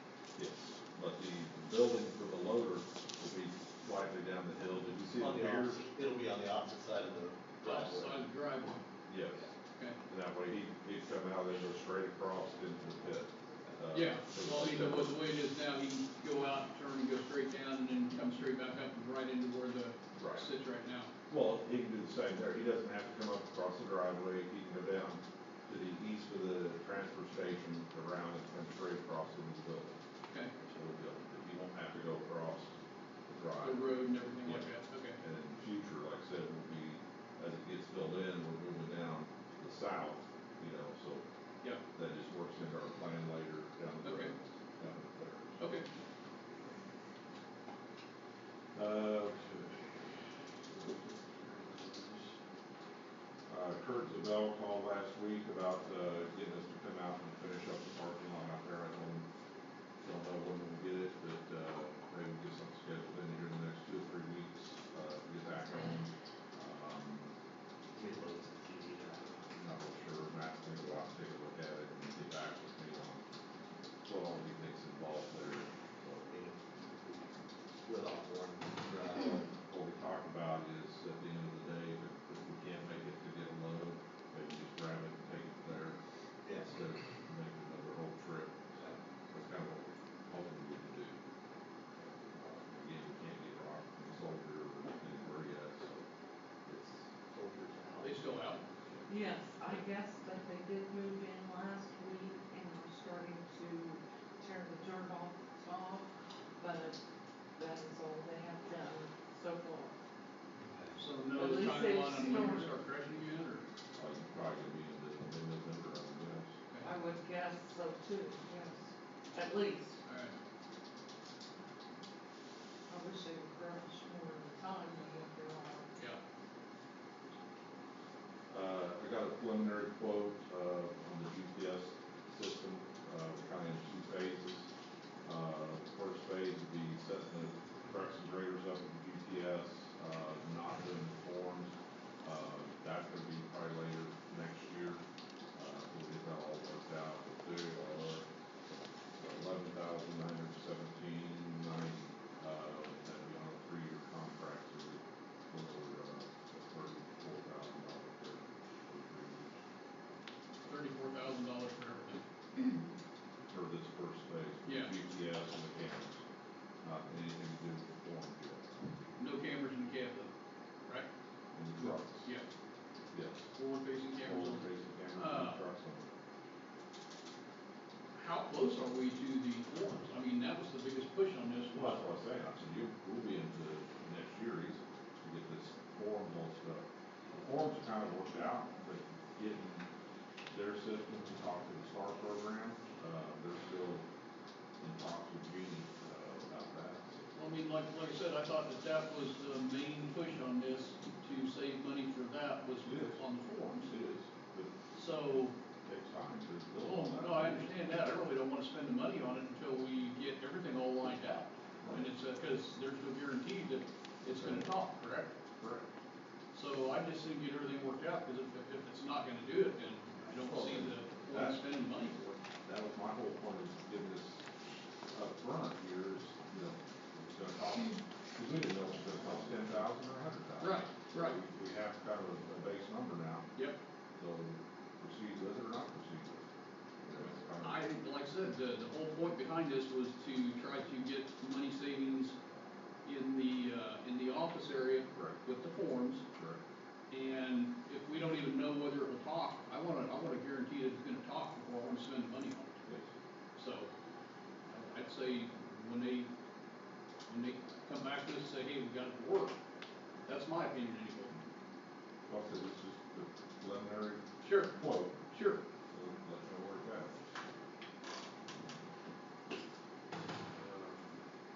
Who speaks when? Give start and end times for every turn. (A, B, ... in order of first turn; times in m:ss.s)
0:00.4-0:05.8 A
0:05.1-0:08.3 B
0:07.6-0:08.8 C
0:09.0-0:09.5 A
0:10.0-0:15.1 A
0:13.9-0:21.1 C
0:20.1-0:20.5 A
0:21.3-0:29.9 A
0:30.5-0:32.7 A
0:33.3-0:33.9 A
0:33.6-0:35.2 C
0:34.4-0:41.2 A
0:41.9-0:45.6 A
0:44.0-0:44.3 C
0:45.6-0:45.8 C
0:48.7-0:52.2 A
0:53.5-0:59.3 A
1:00.0-1:07.3 A
1:07.9-1:09.5 B
1:09.5-1:13.2 A
1:14.0-1:16.3 A
1:16.2-1:19.4 B
1:19.6-1:26.0 A
1:26.4-1:26.8 B
1:26.5-1:31.2 A
1:32.0-1:36.1 A
1:36.6-1:37.1 A
1:37.3-1:38.3 B
1:38.0-1:38.6 C
1:39.1-1:47.0 D
1:47.6-1:49.9 D
1:50.5-1:51.0 B
1:50.9-1:53.6 C
1:51.3-1:52.7 D
1:53.9-1:56.5 A
1:56.8-2:00.0 D
2:00.0-2:00.4 C
2:02.9-2:05.8 D
2:08.5-2:14.7 A
2:15.2-2:25.0 A
2:25.5-2:28.2 A
2:29.2-2:39.6 A
2:40.6-2:42.8 C
2:43.5-2:46.2 A
2:44.6-2:44.9 C
2:46.8-2:48.7 A
2:49.2-2:50.3 C
2:51.5-2:52.3 A
2:51.8-2:52.5 C
2:53.1-2:53.5 A
2:53.5-2:55.6 C
2:54.2-2:56.1 A
2:58.1-3:02.0 C
3:01.7-3:09.9 A
3:10.5-3:14.0 A
3:14.8-3:17.2 A
3:17.3-3:23.9 C
3:22.8-3:24.7 A
3:24.9-3:25.5 C
3:25.8-3:27.7 A
3:26.8-3:35.3 C
3:31.8-3:32.1 A
3:34.2-3:34.7 A
3:35.6-3:35.9 A
3:36.5-3:42.2 C
3:40.4-3:44.4 A
3:45.1-3:53.4 A
3:50.6-3:51.4 C
3:54.2-3:56.4 A
3:57.0-3:57.8 A
3:57.6-4:02.3 C
4:03.0-4:06.2 C
4:05.1-4:05.4 A
4:06.3-4:06.6 A
4:07.1-4:12.7 C
4:13.6-4:13.9 C
4:14.7-4:16.3 C
4:17.3-4:19.6 C
4:20.2-4:21.3 C
4:22.3-4:25.2 A
4:24.4-4:24.8 C
4:25.3-4:25.6 C
4:25.9-4:27.1 A
4:30.6-4:31.1 A